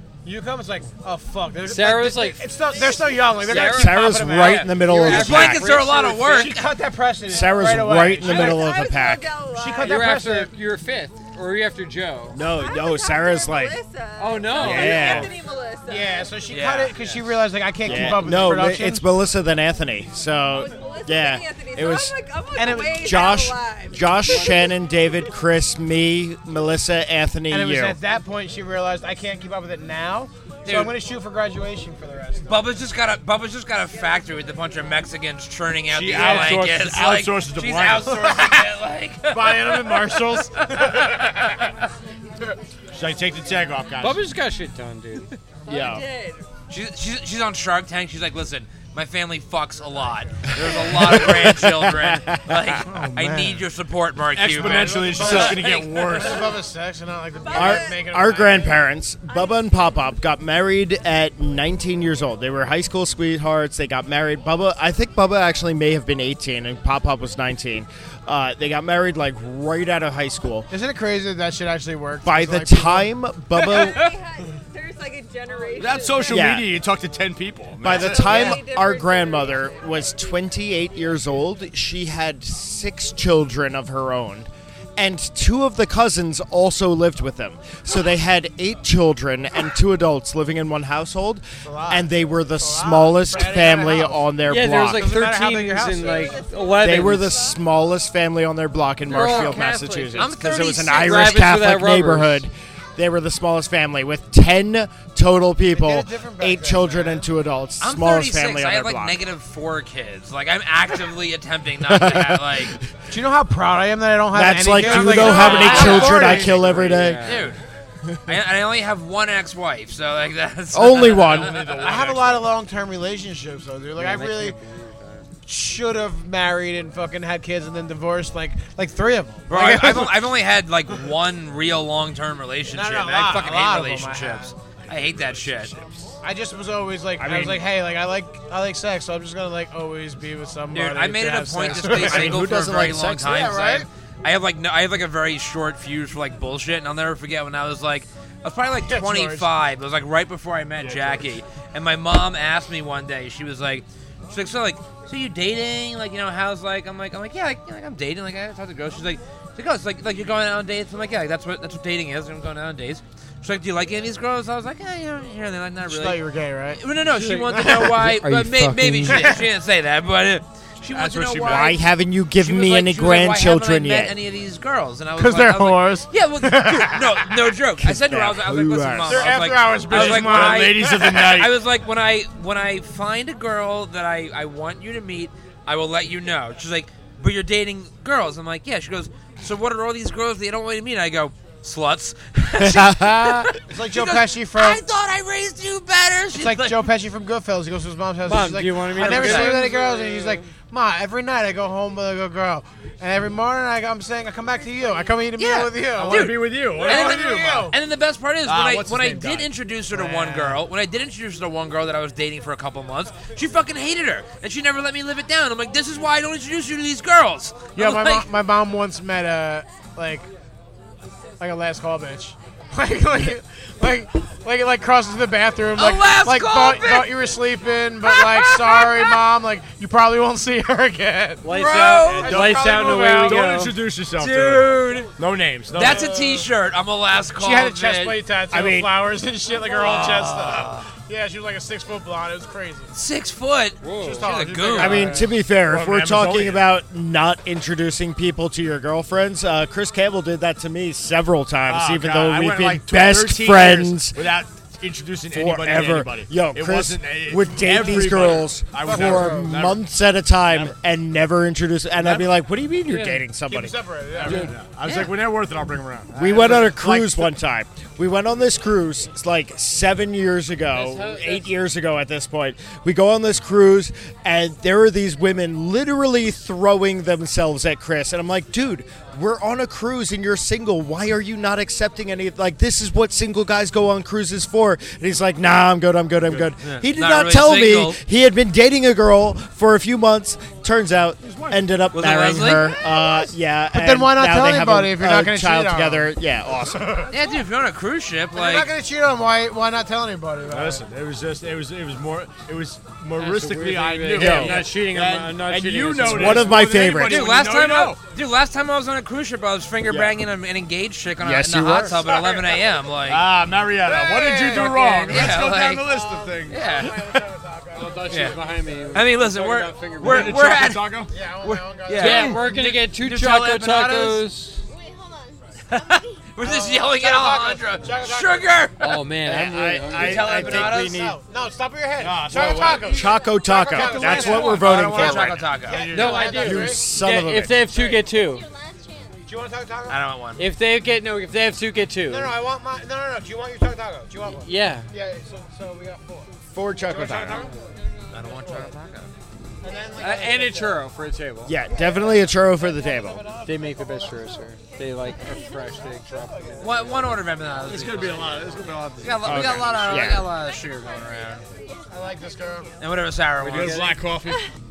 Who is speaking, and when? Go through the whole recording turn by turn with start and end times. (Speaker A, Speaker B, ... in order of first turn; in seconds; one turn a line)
Speaker A: 0.2-4.9
Speaker B: 1.7-2.4
Speaker B: 3.4-6.5
Speaker C: 3.5-5.7
Speaker D: 5.0-6.7
Speaker A: 6.0-8.7
Speaker C: 7.3-9.3
Speaker E: 8.2-10.1
Speaker A: 9.5-10.5
Speaker B: 9.8-12.4
Speaker C: 12.3-13.8
Speaker E: 12.4-16.5
Speaker B: 14.2-15.2
Speaker C: 14.6-15.3
Speaker A: 15.9-19.0
Speaker D: 16.5-17.2
Speaker C: 17.8-22.1
Speaker E: 20.5-24.8
Speaker A: 22.6-23.1
Speaker C: 22.9-28.0
Speaker A: 27.5-32.7
Speaker D: 30.6-30.9
Speaker D: 32.5-41.7
Speaker F: 35.9-38.2
Speaker A: 36.1-36.6
Speaker A: 38.1-38.7
Speaker A: 39.3-41.6
Speaker F: 42.9-44.2
Speaker B: 44.0-45.3
Speaker E: 45.7-46.5
Speaker C: 45.7-46.1
Speaker D: 46.7-55.6
Speaker C: 50.5-52.8
Speaker A: 52.9-53.6
Speaker F: 54.3-56.6
Speaker A: 54.5-58.8
Speaker E: 57.4-58.1
Speaker C: 57.5-70.7
Speaker E: 59.3-60.1
Speaker A: 70.7-73.1
Speaker C: 72.2-74.0
Speaker D: 73.5-74.1
Speaker E: 73.7-76.6
Speaker F: 75.8-78.2
Speaker C: 76.3-76.7
Speaker C: 77.8-95.2
Speaker E: 77.9-80.2
Speaker A: 78.2-78.6
Speaker A: 91.6-94.3
Speaker B: 94.5-97.4
Speaker A: 95.0-96.5
Speaker E: 96.0-97.7
Speaker C: 96.8-109.2
Speaker B: 99.1-100.3
Speaker D: 100.2-101.5
Speaker B: 100.9-102.5
Speaker A: 105.7-107.3
Speaker D: 107.8-112.8
Speaker C: 111.8-112.9
Speaker A: 113.1-116.6
Speaker C: 114.3-117.3
Speaker D: 114.8-116.5
Speaker B: 115.3-117.5
Speaker D: 117.2-117.6
Speaker C: 118.0-118.4
Speaker D: 118.3-121.9
Speaker C: 120.7-121.6
Speaker F: 120.9-122.5
Speaker A: 121.7-124.6
Speaker B: 124.0-125.3
Speaker A: 125.5-130.3
Speaker D: 129.5-135.7
Speaker A: 132.7-134.5
Speaker F: 134.8-136.2
Speaker A: 136.2-142.5
Speaker C: 137.2-137.7
Speaker D: 140.7-166.2
Speaker C: 141.8-143.8
Speaker A: 143.2-143.9
Speaker A: 148.8-149.5
Speaker F: 150.8-151.3
Speaker A: 165.9-168.0
Speaker D: 166.7-171.8
Speaker B: 167.9-169.3
Speaker A: 169.1-169.4
Speaker F: 170.9-171.8
Speaker C: 171.4-174.2
Speaker D: 172.4-196.9
Speaker A: 175.2-177.4
Speaker C: 177.8-179.4
Speaker A: 179.1-181.4
Speaker F: 179.9-181.6
Speaker C: 192.6-193.6
Speaker A: 193.7-194.8
Speaker A: 196.4-207.8
Speaker B: 198.2-200.5
Speaker D: 198.9-199.6
Speaker D: 205.4-218.3
Speaker F: 205.9-207.7
Speaker F: 208.4-209.5
Speaker A: 209.9-210.6
Speaker A: 217.8-220.3
Speaker A: 221.4-233.5
Speaker D: 225.8-227.3
Speaker D: 228.1-229.2
Speaker B: 231.4-233.8
Speaker D: 231.5-232.5
Speaker F: 232.0-236.1
Speaker D: 234.2-235.1
Speaker A: 235.7-236.5
Speaker D: 235.7-238.2
Speaker A: 237.4-242.9
Speaker C: 238.5-239.0
Speaker D: 239.6-240.9
Speaker D: 242.9-245.2
Speaker B: 243.8-244.3
Speaker A: 244.0-245.3
Speaker C: 244.8-254.3
Speaker F: 245.5-246.6
Speaker F: 251.7-259.8
Speaker C: 255.3-264.4
Speaker A: 258.8-259.6
Speaker F: 260.5-260.8
Speaker F: 262.0-262.3
Speaker B: 262.9-263.2
Speaker A: 263.5-264.6
Speaker F: 264.2-267.3
Speaker D: 264.9-265.1
Speaker C: 266.1-297.1
Speaker B: 270.7-271.5
Speaker F: 286.3-286.8
Speaker D: 286.9-288.0
Speaker F: 291.3-291.6
Speaker D: 291.9-292.7
Speaker A: 293.7-297.2
Speaker D: 297.1-298.7
Speaker A: 298.3-300.8
Speaker F: 300.5-308.0
Speaker B: 303.2-306.5
Speaker C: 304.1-304.7
Speaker C: 306.0-307.3
Speaker D: 307.0-313.2
Speaker C: 309.9-310.2
Speaker C: 311.2-312.2
Speaker A: 312.0-312.7
Speaker F: 313.1-316.9
Speaker A: 313.8-318.4
Speaker D: 314.5-315.9
Speaker B: 314.7-315.2
Speaker D: 316.5-317.2
Speaker B: 317.7-320.5
Speaker D: 318.1-318.4
Speaker D: 318.9-324.3
Speaker F: 320.0-321.1
Speaker A: 321.1-322.4
Speaker B: 322.0-324.6
Speaker F: 322.1-322.5
Speaker G: 324.6-326.3
Speaker D: 325.7-329.0
Speaker A: 326.4-328.6
Speaker B: 328.8-330.3
Speaker C: 329.2-331.2
Speaker D: 329.9-331.1
Speaker A: 330.0-336.8
Speaker F: 332.0-333.0
Speaker C: 332.8-335.5
Speaker D: 333.7-335.9
Speaker F: 335.6-336.2
Speaker B: 335.8-338.4
Speaker C: 336.2-337.6
Speaker G: 337.7-339.2
Speaker A: 337.7-338.0
Speaker A: 339.3-340.0
Speaker D: 339.9-340.4
Speaker B: 340.4-342.3
Speaker A: 342.1-346.3
Speaker B: 344.4-344.9
Speaker C: 346.5-347.5
Speaker A: 346.8-347.6
Speaker D: 348.1-349.1
Speaker A: 348.3-348.7
Speaker A: 349.6-350.9
Speaker B: 350.0-351.6
Speaker C: 351.5-353.2
Speaker G: 351.6-351.9
Speaker A: 351.7-354.1
Speaker B: 353.4-357.2
Speaker G: 354.1-356.4
Speaker A: 356.1-357.1
Speaker D: 356.6-361.5
Speaker F: 357.6-359.8
Speaker C: 359.2-360.3
Speaker G: 359.7-363.1
Speaker A: 361.9-362.7
Speaker D: 362.8-363.8
Speaker F: 363.4-364.5
Speaker B: 363.4-364.1